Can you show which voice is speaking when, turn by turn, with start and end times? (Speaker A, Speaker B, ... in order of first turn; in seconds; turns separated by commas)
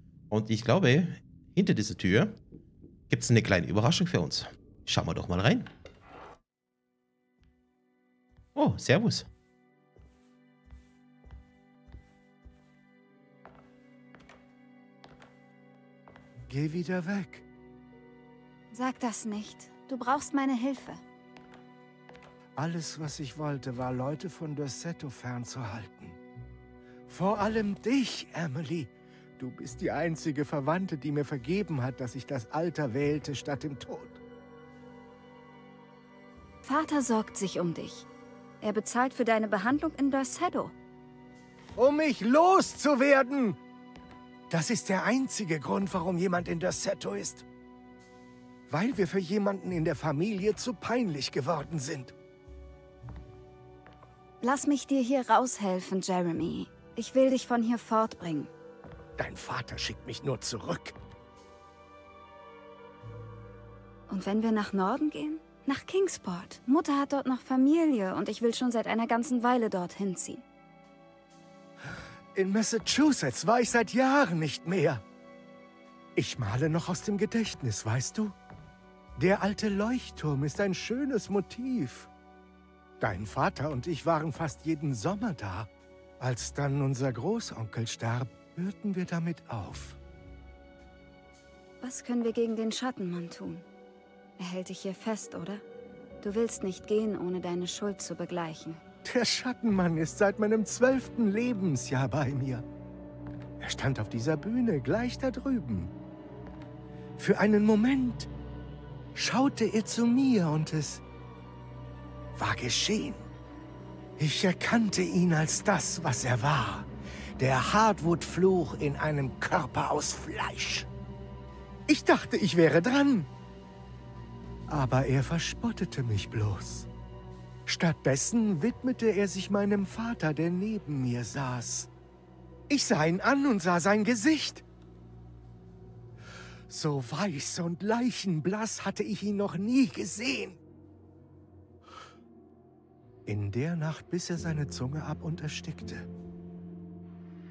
Speaker A: 0.3-2.4, Speaker A: 3.1-5.7, Speaker A: 8.5-9.3, Speaker B: 16.5-17.4, Speaker C: 18.7-21.0, Speaker B: 22.6-26.2, Speaker B: 27.1-34.2, Speaker C: 36.6-38.1, Speaker C: 38.6-40.7, Speaker B: 41.8-43.6, Speaker B: 44.5-47.4, Speaker B: 48.7-52.1, Speaker C: 54.4-58.5, Speaker B: 59.2-61.0, Speaker C: 64.1-70.4, Speaker B: 72.3-75.0, Speaker B: 76.2-78.3, Speaker B: 79.2-82.1, Speaker B: 83.0-90.0, Speaker C: 91.8-93.7, Speaker C: 94.4-95.6, Speaker C: 96.2-98.8, Speaker B: 99.0-102.6, Speaker B: 103.6-105.9, Speaker B: 107.2-108.3, Speaker B: 109.1-111.0, Speaker B: 112.3-113.3, Speaker B: 114.2-120.9, Speaker B: 121.9-123.3, Speaker B: 124.7-126.9, Speaker B: 127.7-131.9, Speaker B: 132.7-134.6, Speaker B: 136.7-140.6, Speaker B: 143.2-146.1